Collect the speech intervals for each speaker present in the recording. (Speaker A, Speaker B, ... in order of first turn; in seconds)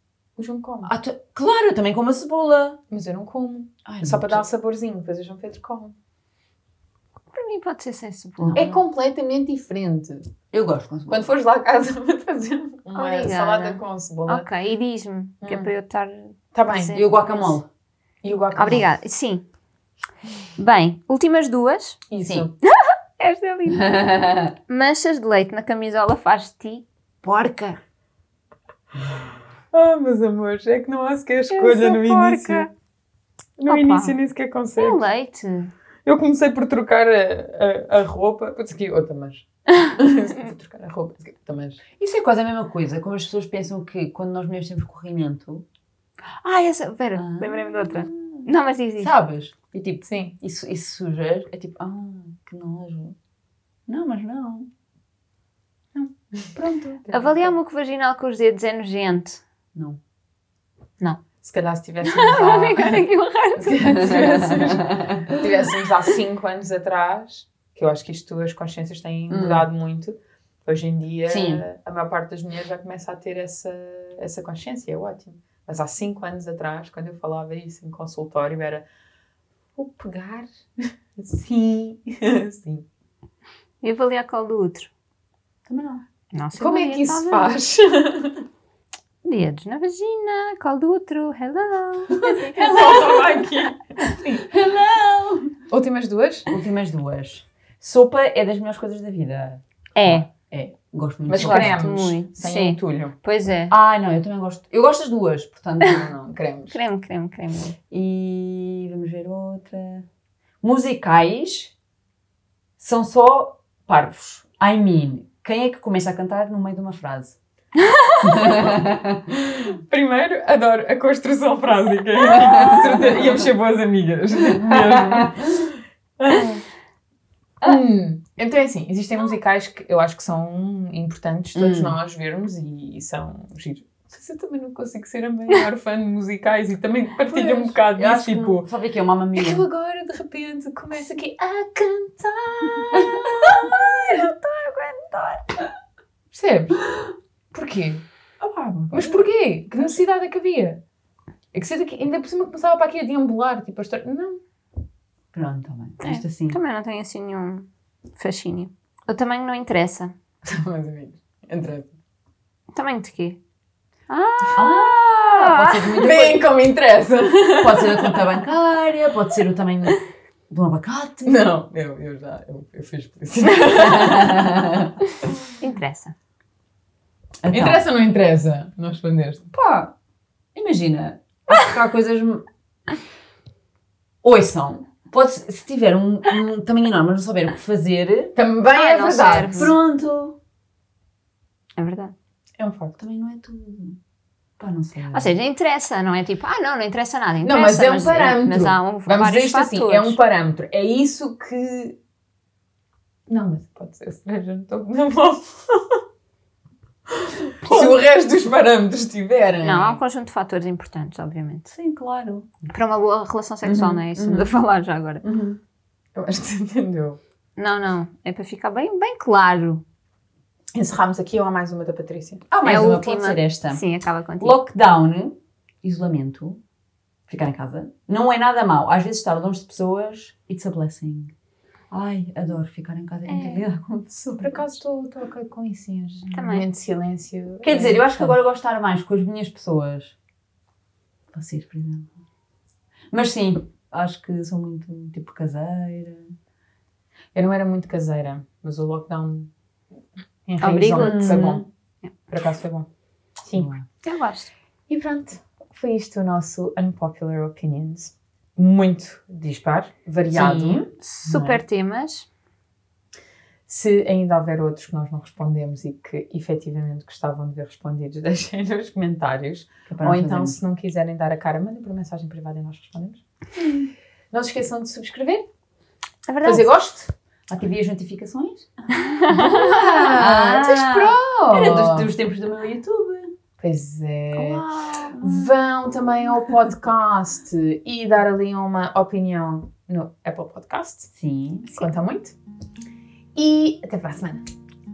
Speaker A: 0.4-0.9, 2.9-5.9, 8.5-10.3, 11.1-14.4, 15.4-15.7, 16.5-16.9, 18.2-18.9, 22.1-22.5, 29.7-32.7, 33.6-35.0, 36.0-41.8, 50.1-50.3, 55.9-56.5, 57.1-57.5, 61.4-63.1, 63.6-78.8, 79.8-82.8, 86.5-88.4, 92.5-94.5, 95.7-96.5, 101.3-103.1, 105.8-106.8, 119.6-126.6, 127.6-138.7, 139.3-144.4, 146.3-146.8, 147.5-150.8, 151.5-154.4, 160.4-161.9, 166.0-168.3, 171.2-174.6, 177.5-179.4, 188.3-189.7, 192.6-193.0, 197.4-202.0, 203.3-206.0, 207.1-210.0, 216.1-217.2, 220.7-222.4, 234.4-238.3, 247.3-249.5, 250.5-251.7, 252.3-252.9, 253.4-253.7, 254.9-261.6, 263.7-273.2, 274.3-275.5, 276.4-277.1, 279.3-282.1, 283.6-291.1, 291.7-292.3, 293.3-294.4
Speaker B: 0.8-2.8, 3.8-4.4, 8.4-8.8, 10.5-11.3, 16.9-17.7, 22.2-22.5, 23.7-24.5, 42.0-45.6, 47.2-48.5, 49.0-53.1, 53.9-54.7, 56.5-57.1, 59.7-60.0, 63.6-65.5, 69.3-69.7, 71.2-71.6, 85.7-86.0, 92.5-93.5, 94.5-95.5, 96.5-101.9, 103.7-106.0, 107.9-110.0, 110.6-111.7, 112.8-117.4, 118.2-119.5, 122.3-123.4, 124.6-125.3, 131.5-132.0, 137.3-139.6, 142.9-144.3, 148.9-149.2, 155.3-156.6, 164.6-166.4, 167.6-171.5, 173.7-174.9, 177.4-177.8, 179.5-179.9, 180.5-182.4, 184.2-188.3, 189.1-190.4, 193.0-194.0, 194.6-195.3, 207.6-208.0, 211.7-212.5, 213.6-214.5, 215.2-215.6, 222.5-223.8, 224.4-226.6, 227.3-231.3, 231.9-234.7, 237.6-240.1, 241.3-242.1, 243.1-246.3, 250.9-251.7, 253.5-253.8, 269.9-270.6, 273.6-273.9, 277.5-278.7, 279.4-283.3, 284.3-285.5, 291.1-291.7
Speaker C: 7.3-8.8, 12.9-17.6, 18.5-19.4, 20.6-22.0, 22.6-24.0, 24.7-27.8, 31.5-32.7, 33.7-34.2, 34.8-35.7, 46.4-49.1, 57.1-59.4, 62.0-64.0, 83.8-84.9, 86.3-87.5, 89.2-93.2, 99.9-100.3, 101.3-103.7, 106.7-107.8, 156.0-160.1, 162.7-163.4, 164.1-165.9, 175.6-176.1, 188.7-189.7, 191.8-192.1, 195.1-200.2, 209.6-211.7, 212.7-215.2, 217.6-219.8, 222.6-224.6, 233.3-233.6, 236.3-236.6, 250.6-251.4, 254.0-254.5, 260.3-262.3, 276.3-276.7, 278.9-279.7